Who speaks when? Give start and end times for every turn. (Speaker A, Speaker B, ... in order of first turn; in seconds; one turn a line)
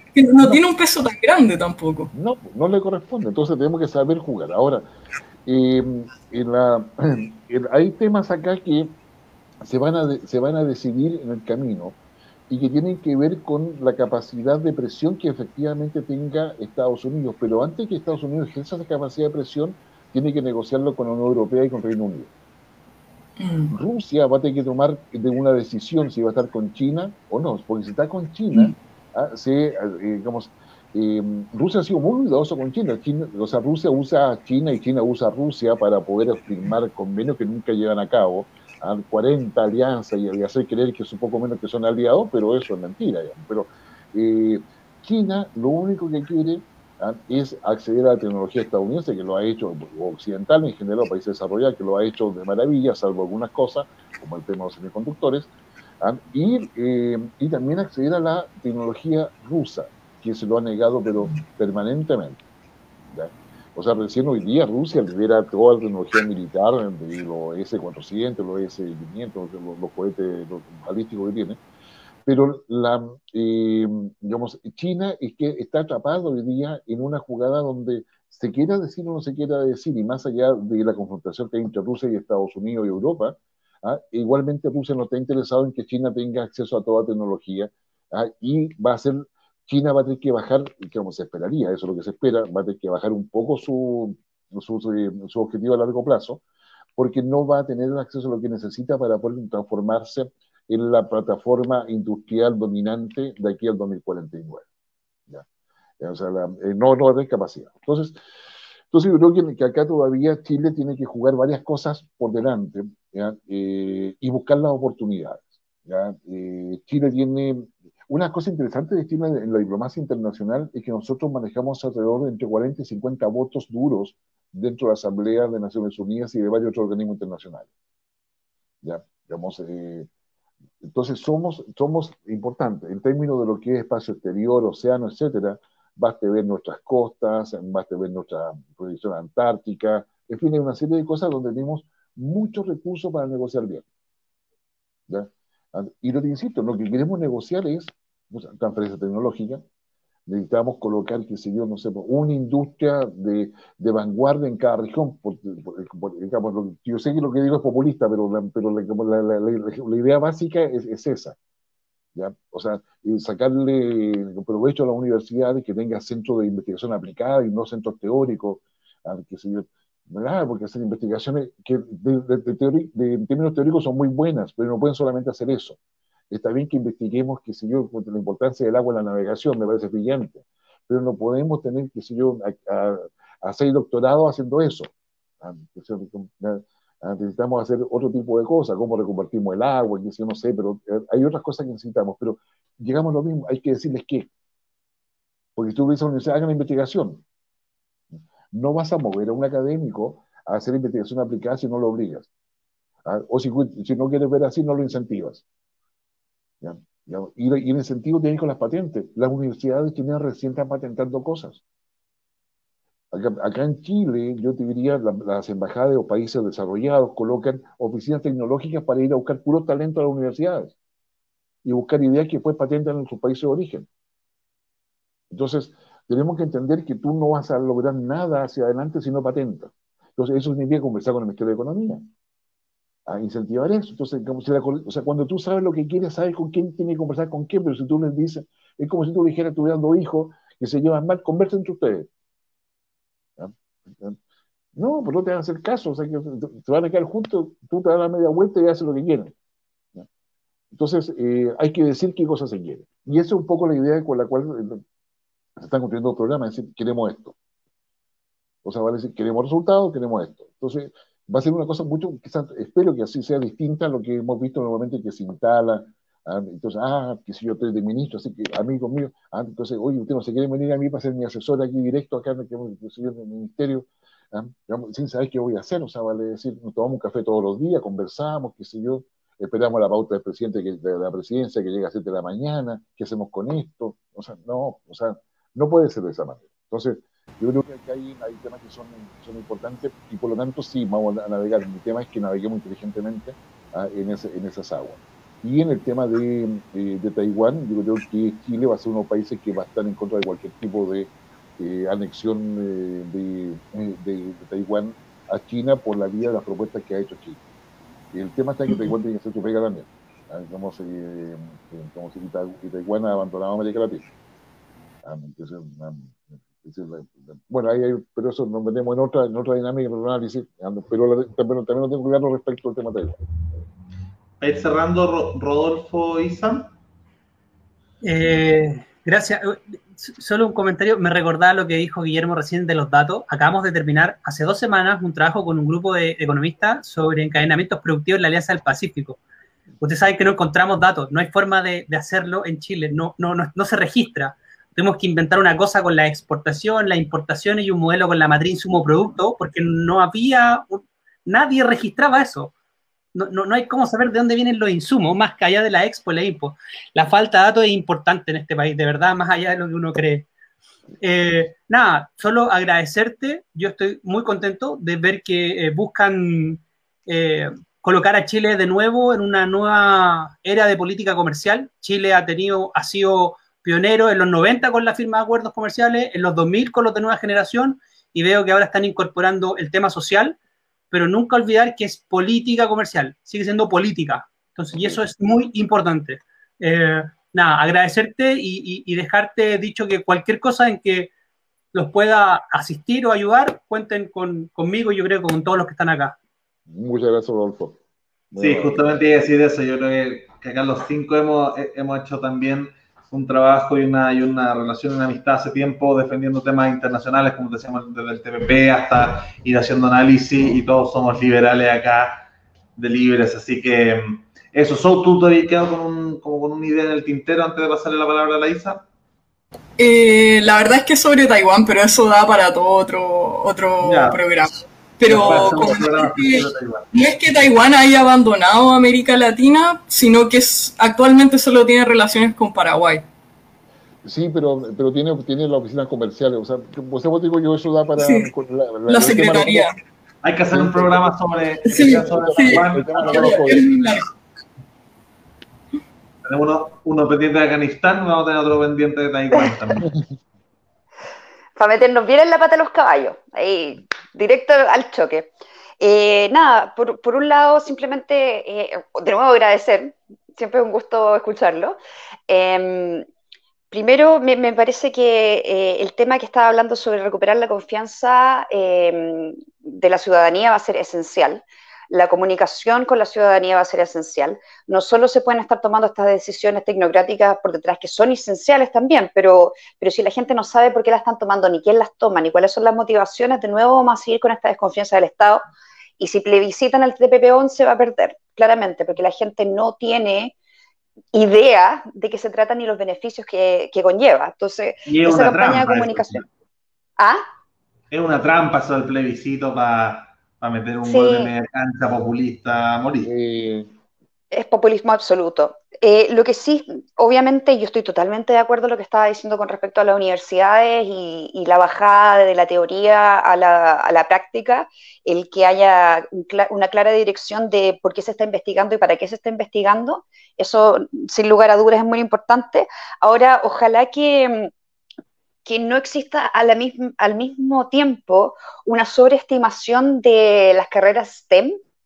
Speaker A: 0.1-2.1
Speaker B: 2.1-4.9
Speaker B: 5.5-9.0
Speaker B: 9.6-12.0
Speaker B: 12.5-22.3
Speaker A: 23.4-23.7
Speaker B: 23.7-62.4
Speaker B: 63.1-71.6
Speaker B: 72.3-96.4
Speaker B: 97.0-104.7
Speaker B: 106.0-108.2
Speaker B: 108.9-127.7
Speaker B: 128.8-130.1
Speaker B: 130.8-143.9
Speaker B: 145.1-149.6
Speaker B: 150.3-161.4
Speaker B: 162.2-175.8
Speaker B: 176.3-194.3
Speaker B: 195.6-197.2
Speaker B: 198.5-202.3
Speaker B: 203.1-205.4
Speaker B: 206.6-211.6
Speaker B: 213.1-220.8
Speaker B: 221.6-223.9
Speaker B: 225.3-232.0
Speaker B: 233.1-242.1
Speaker B: 243.4-244.2
Speaker B: 244.8-249.3
Speaker B: 250.7-254.8
Speaker B: 255.6-257.4
Speaker B: 258.6-307.4
Speaker B: 308.1-314.1
Speaker B: 315.0-323.2
Speaker C: 324.4-326.7
Speaker D: 328.0-339.2
Speaker D: 339.8-352.5
Speaker D: 353.1-360.3
Speaker D: 361.0-380.4
Speaker D: 380.9-391.1
Speaker D: 391.7-396.2
Speaker B: 396.7-397.8
Speaker B: 398.3-398.9
Speaker C: 398.4-412.3
Speaker C: 412.8-418.9
Speaker A: 419.8-433.1
Speaker C: 423.8-424.2
Speaker C: 425.1-426.9
Speaker B: 434.0-439.8
Speaker A: 438.0-438.3
Speaker A: 438.9-439.8
Speaker C: 440.2-443.6
Speaker B: 440.5-443.8
Speaker A: 441.7-444.1
Speaker C: 446.2-449.9
Speaker E: 451.6-463.1
Speaker E: 463.7-485.4
Speaker E: 486.0-490.4
Speaker E: 491.1-496.3
Speaker C: 494.9-496.3
Speaker E: 497.0-497.2
Speaker C: 497.9-503.1
Speaker E: 500.9-501.3
Speaker B: 503.0-503.7
Speaker E: 504.3-524.5
Speaker E: 525.5-531.6